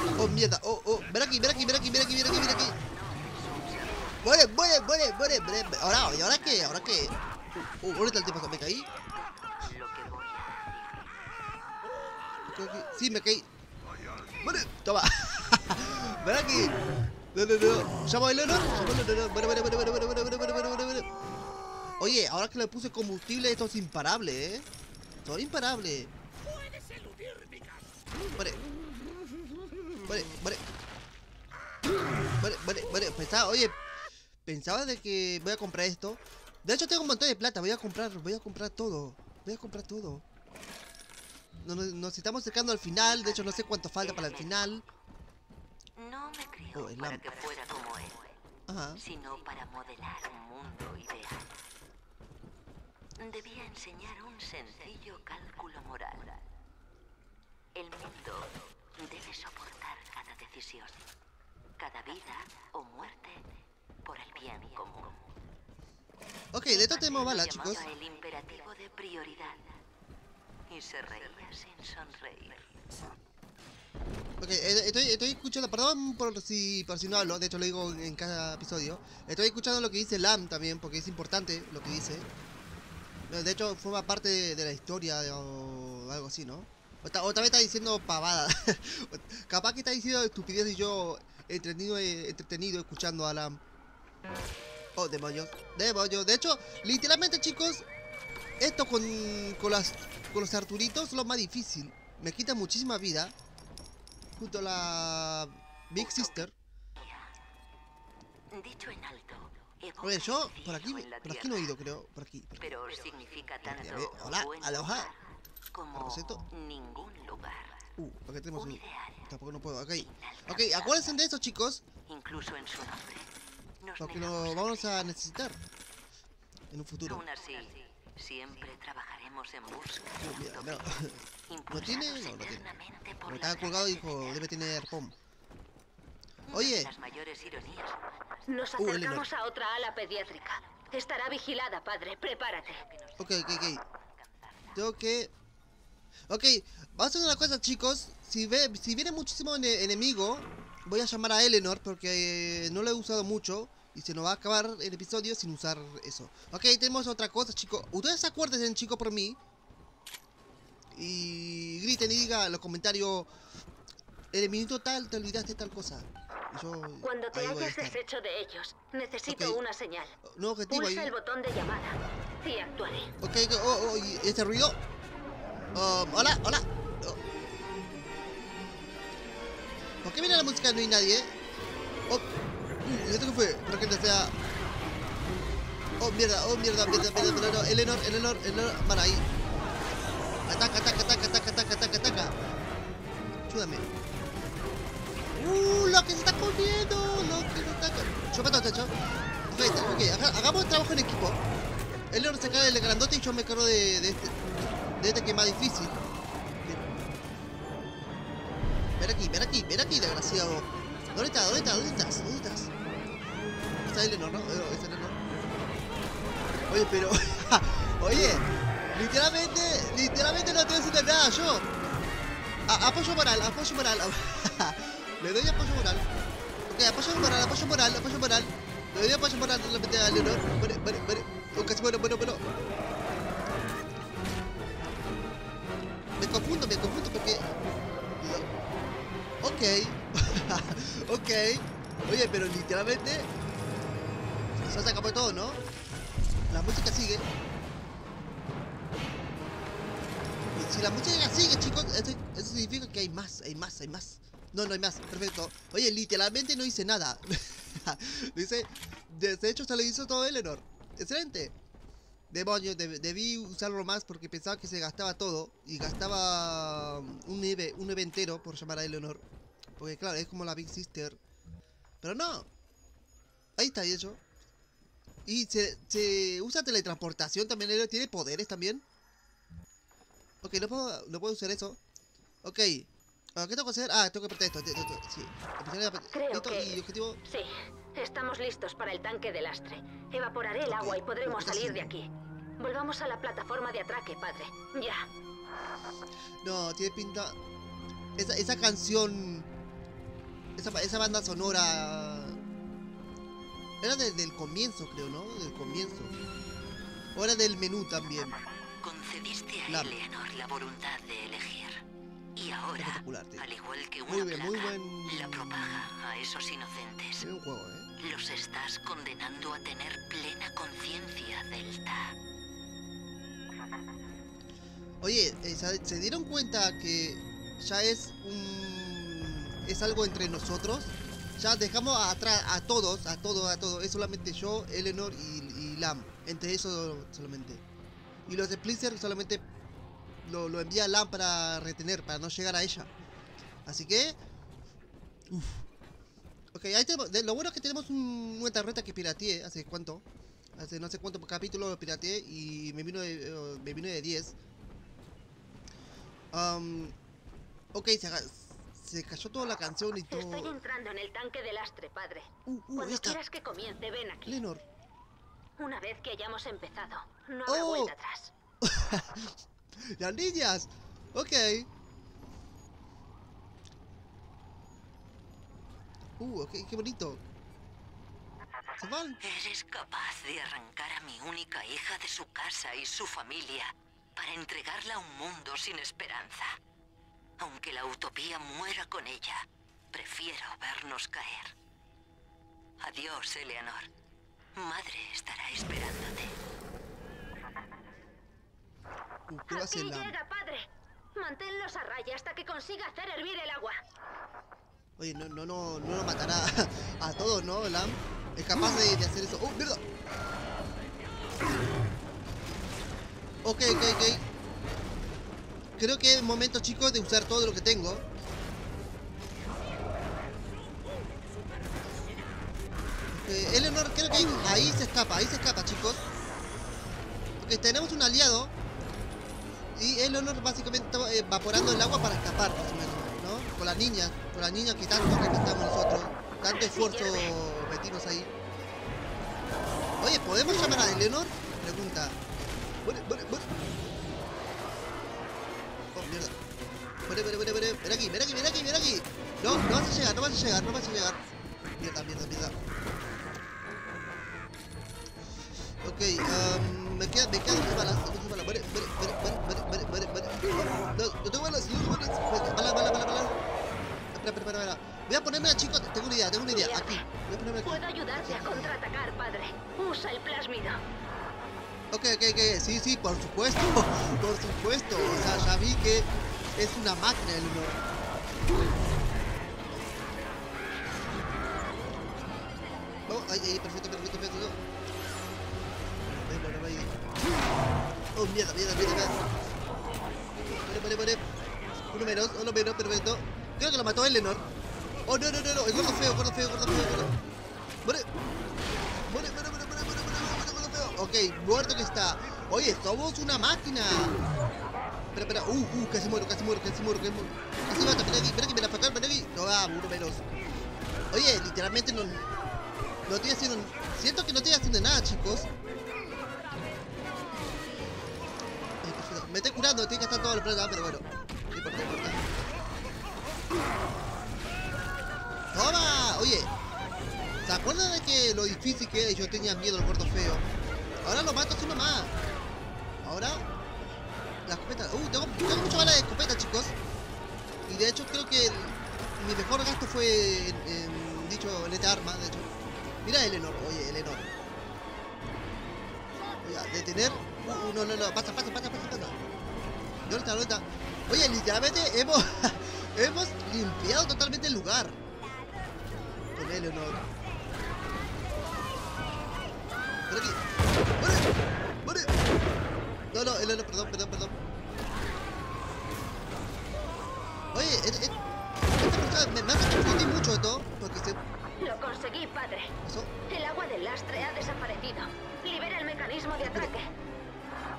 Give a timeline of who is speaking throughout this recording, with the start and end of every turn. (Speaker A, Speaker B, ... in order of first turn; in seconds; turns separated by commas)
Speaker A: 0.2-2.8, Speaker B: 2.8-4.2, Speaker A: 4.2-8.8, Speaker B: 8.9-11.2, Speaker A: 12.5-13.5, Speaker A: 14.4-16.8, Speaker A: 17.3-21.1, Speaker A: 22.0-24.7, Speaker A: 25.2-26.1, Speaker A: 30.1-30.6, Speaker A: 32.4-33.8, Speaker A: 34.4-40.2, Speaker A: 41.6-44.8, Speaker B: 44.0-44.8, Speaker B: 46.0-48.4, Speaker A: 46.7-47.3, Speaker A: 48.7-49.0, Speaker B: 49.0-51.5, Speaker B: 53.2-56.4, Speaker B: 57.7-61.1, Speaker B: 61.8-63.4, Speaker B: 64.0-65.3, Speaker A: 66.5-67.8, Speaker B: 66.7-69.7, Speaker B: 70.7-72.7, Speaker A: 74.4-82.3, Speaker A: 83.3-93.6, Speaker A: 95.0-97.9, Speaker A: 98.6-103.3, Speaker A: 104.4-106.5, Speaker B: 106.0-107.3, Speaker B: 108.5-111.8, Speaker A: 110.0-112.8, Speaker B: 112.6-117.9, Speaker A: 113.6-115.1, Speaker A: 115.9-116.4, Speaker A: 118.0-121.8, Speaker B: 118.5-119.3, Speaker B: 120.0-121.2, Speaker B: 122.0-125.0, Speaker A: 124.0-125.6, Speaker A: 126.7-127.2, Speaker B: 127.0-130.9, Speaker A: 130.2-132.7, Speaker B: 131.5-134.4, Speaker A: 133.2-135.1, Speaker B: 136.5-138.8, Speaker A: 136.5-136.9, Speaker C: 138.5-142.8, Speaker A: 138.8-139.2, Speaker B: 140.6-140.9, Speaker B: 142.6-144.8, Speaker A: 143.2-143.8, Speaker A: 144.7-145.3, Speaker A: 146.3-159.4, Speaker A: 160.9-163.3, Speaker A: 164.3-168.0, Speaker C: 167.0-170.2, Speaker A: 169.2-169.6, Speaker A: 170.2-171.1, Speaker C: 170.7-173.1, Speaker A: 173.2-174.8, Speaker A: 175.7-177.2, Speaker A: 180.0-181.3, Speaker A: 182.8-184.3, Speaker A: 186.0-189.3, Speaker A: 190.5-192.3, Speaker A: 193.5-193.8, Speaker A: 195.3-198.9, Speaker A: 199.5-201.4, Speaker A: 202.1-204.4, Speaker A: 205.0-206.0, Speaker A: 209.0-212.7, Speaker A: 213.7-215.2, Speaker A: 216.7-221.7, Speaker A: 222.7-226.0, Speaker A: 226.7-232.4, Speaker A: 236.2-237.5, Speaker A: 238.2-238.5, Speaker A: 239.4-243.3, Speaker A: 244.6-245.6, Speaker A: 246.5-247.3, Speaker A: 250.5-261.5, Speaker A: 262.3-269.2, Speaker A: 269.8-271.2, Speaker A: 272.0-272.5, Speaker A: 273.6-274.2, Speaker A: 275.2-278.8, Speaker A: 280.4-281.8, Speaker A: 282.4-287.2, Speaker C: 286.1-295.1, Speaker A: 290.6-291.9, Speaker A: 296.4-297.4, Speaker A: 298.2-299.5, Speaker A: 300.6-302.4, Speaker A: 303.8-306.1, Speaker A: 307.1-308.4, Speaker B: 308.8-311.8, Speaker A: 309.7-309.9, Speaker B: 312.3-317.3, Speaker A: 312.8-313.4, Speaker A: 314.1-315.9, Speaker A: 317.2-317.9, Speaker B: 318.0-322.1, Speaker A: 325.0-337.6, Speaker A: 338.3-339.4, Speaker A: 340.2-342.9, Speaker A: 343.6-344.2, Speaker A: 345.3-345.6, Speaker A: 346.5-350.0, Speaker A: 350.6-354.4, Speaker A: 356.3-356.9, Speaker A: 357.7-360.5, Speaker C: 360.1-364.4, Speaker A: 362.5-363.2, Speaker A: 364.2-364.6, Speaker C: 365.6-368.3, Speaker A: 367.4-367.9, Speaker A: 368.6-371.7, Speaker A: 376.2-377.2, Speaker A: 378.8-379.2, Speaker B: 379.2-386.6, Speaker B: 387.4-391.5, Speaker B: 392.8-393.9, Speaker B: 394.5-396.4, Speaker A: 399.3-400.1, Speaker C: 399.5-403.8, Speaker A: 405.0-409.8, Speaker A: 413.4-414.2, Speaker A: 415.8-418.1, Speaker A: 423.1-426.0, Speaker A: 427.4-428.5, Speaker A: 429.7-438.3, Speaker C: 436.5-437.3, Speaker A: 440.0-442.2, Speaker A: 442.8-443.5, Speaker A: 445.9-446.4, Speaker A: 447.1-451.2, Speaker A: 451.8-452.5, Speaker A: 455.8-463.3, Speaker A: 464.1-468.8, Speaker C: 466.5-467.1, Speaker C: 467.6-470.8, Speaker A: 471.9-477.8, Speaker A: 483.1-484.6, Speaker A: 486.1-487.0, Speaker A: 488.1-489.2, Speaker A: 490.5-491.2, Speaker A: 491.9-494.4, Speaker A: 495.1-497.1, Speaker A: 499.1-504.1, Speaker A: 505.1-510.2, Speaker A: 511.1-512.2, Speaker A: 513.1-515.5, Speaker A: 518.8-522.2, Speaker A: 525.5-526.5, Speaker A: 527.4-530.4, Speaker A: 531.0-532.1, Speaker A: 533.0-533.5, Speaker A: 534.5-536.8, Speaker A: 537.7-542.5, Speaker A: 543.0-544.3, Speaker A: 546.4-549.2, Speaker A: 550.0-555.0, Speaker A: 556.3-557.1, Speaker A: 560.1-560.4, Speaker A: 561.0-561.3, Speaker A: 561.8-562.1, Speaker A: 563.1-564.4, Speaker A: 567.5-571.2, Speaker C: 571.6-572.7, Speaker A: 572.8-573.1, Speaker C: 573.3-576.9, Speaker A: 576.4-576.7